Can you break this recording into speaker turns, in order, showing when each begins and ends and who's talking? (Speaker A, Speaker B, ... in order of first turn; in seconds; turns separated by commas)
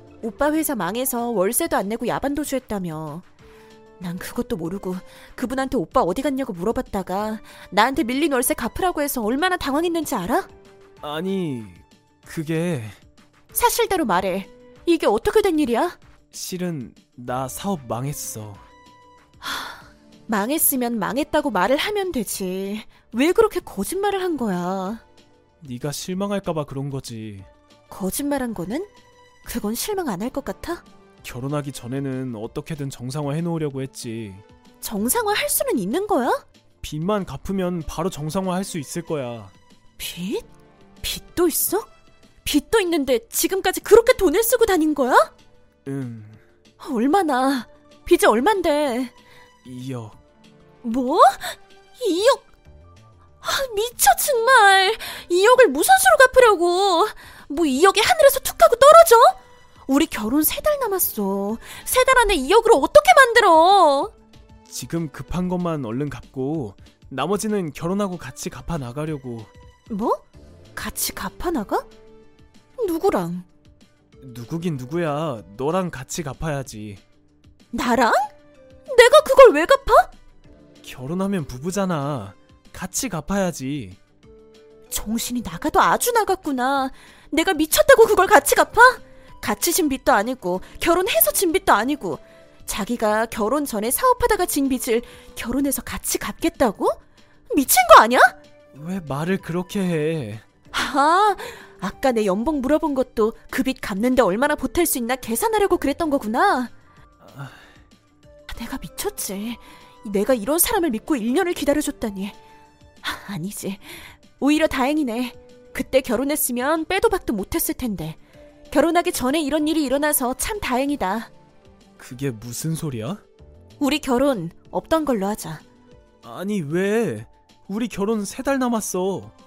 Speaker A: 0.2-3.2, Speaker A: 4.0-10.5, Speaker B: 11.0-13.0, Speaker A: 13.5-16.0, Speaker B: 16.3-18.6, Speaker A: 19.4-19.7, Speaker A: 20.3-25.0, Speaker B: 25.6-27.5, Speaker A: 27.9-28.9, Speaker A: 29.4-30.8, Speaker B: 31.2-34.4, Speaker A: 34.8-36.4, Speaker B: 36.8-39.5, Speaker A: 40.0-40.5, Speaker A: 41.0-41.9, Speaker A: 42.4-45.3, Speaker B: 45.9-46.4, Speaker A: 46.8-49.1, Speaker B: 49.6-50.2, Speaker A: 50.8-52.5, Speaker A: 53.4-64.1, Speaker B: 64.7-69.5, Speaker A: 69.9-70.2, Speaker A: 70.7-71.8, Speaker A: 72.8-73.5, Speaker B: 74.2-77.0, Speaker A: 77.7-78.3, Speaker A: 78.9-80.1, Speaker B: 80.8-84.0, Speaker A: 84.9-98.4, Speaker B: 98.7-100.4, Speaker A: 100.7-106.7, Speaker B: 107.2-107.7, Speaker A: 108.5-112.3, Speaker A: 113.0-118.2, Speaker A: 118.7-121.3, Speaker B: 122.0-123.2, Speaker A: 123.8-125.6, Speaker B: 126.2-129.3